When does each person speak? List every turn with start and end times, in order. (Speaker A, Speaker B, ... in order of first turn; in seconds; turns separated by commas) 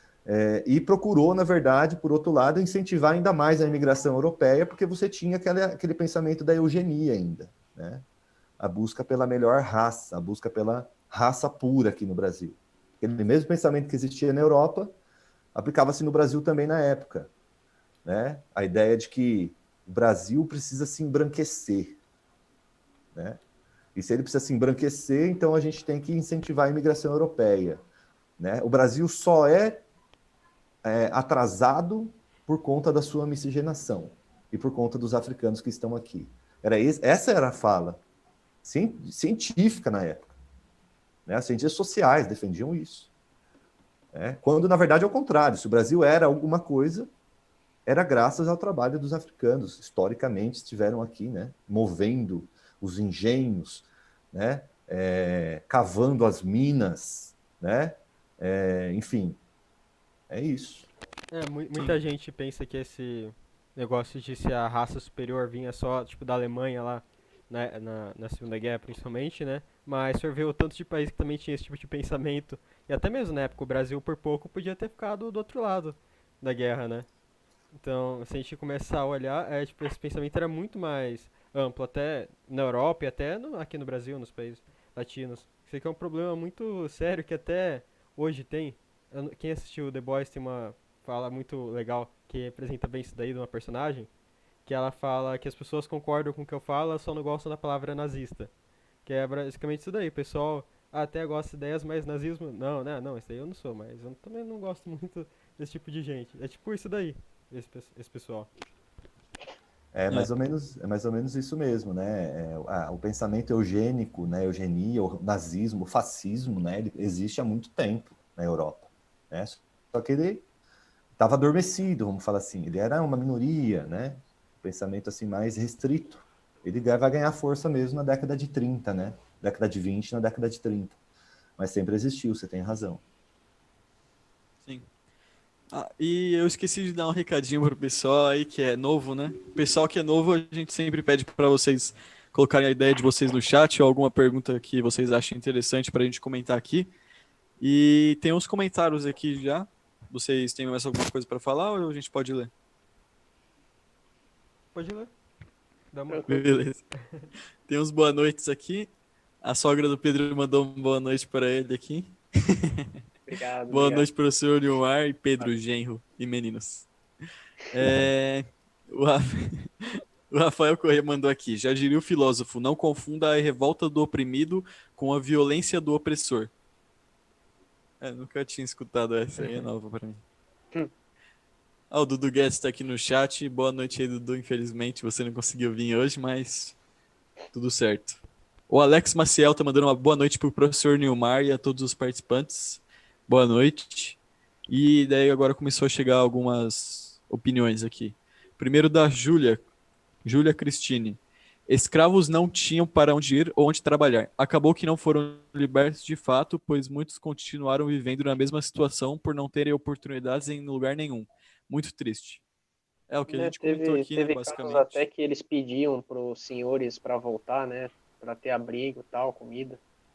Speaker A: 0.2-8.0, Speaker A: 8.6-14.9, Speaker A: 15.5-17.3, Speaker A: 18.0-22.0, Speaker A: 23.1-23.4, Speaker A: 23.9-27.8, Speaker A: 28.4-29.8, Speaker A: 30.8-38.0, Speaker A: 38.6-40.3, Speaker A: 41.2-43.1, Speaker A: 44.1-47.1, Speaker A: 47.9-59.4, Speaker A: 60.3-60.9, Speaker B: 61.3-77.1, Speaker B: 77.7-94.1, Speaker B: 94.7-98.5, Speaker B: 99.0-108.5, Speaker A: 109.9-120.4, Speaker A: 121.2-131.0, Speaker A: 131.6-133.0, Speaker C: 135.7-146.9, Speaker C: 147.6-152.5, Speaker B: 154.7-155.1, Speaker B: 155.9-157.3, Speaker C: 156.3-156.8, Speaker C: 157.7-158.9, Speaker C: 159.4-162.9, Speaker D: 163.3-164.1, Speaker C: 163.7-166.9, Speaker C: 167.7-176.5, Speaker C: 178.0-180.2, Speaker D: 179.4-179.7, Speaker C: 181.9-186.8, Speaker C: 187.5-199.6, Speaker C: 200.2-212.4, Speaker C: 213.1-215.0, Speaker D: 213.3-219.8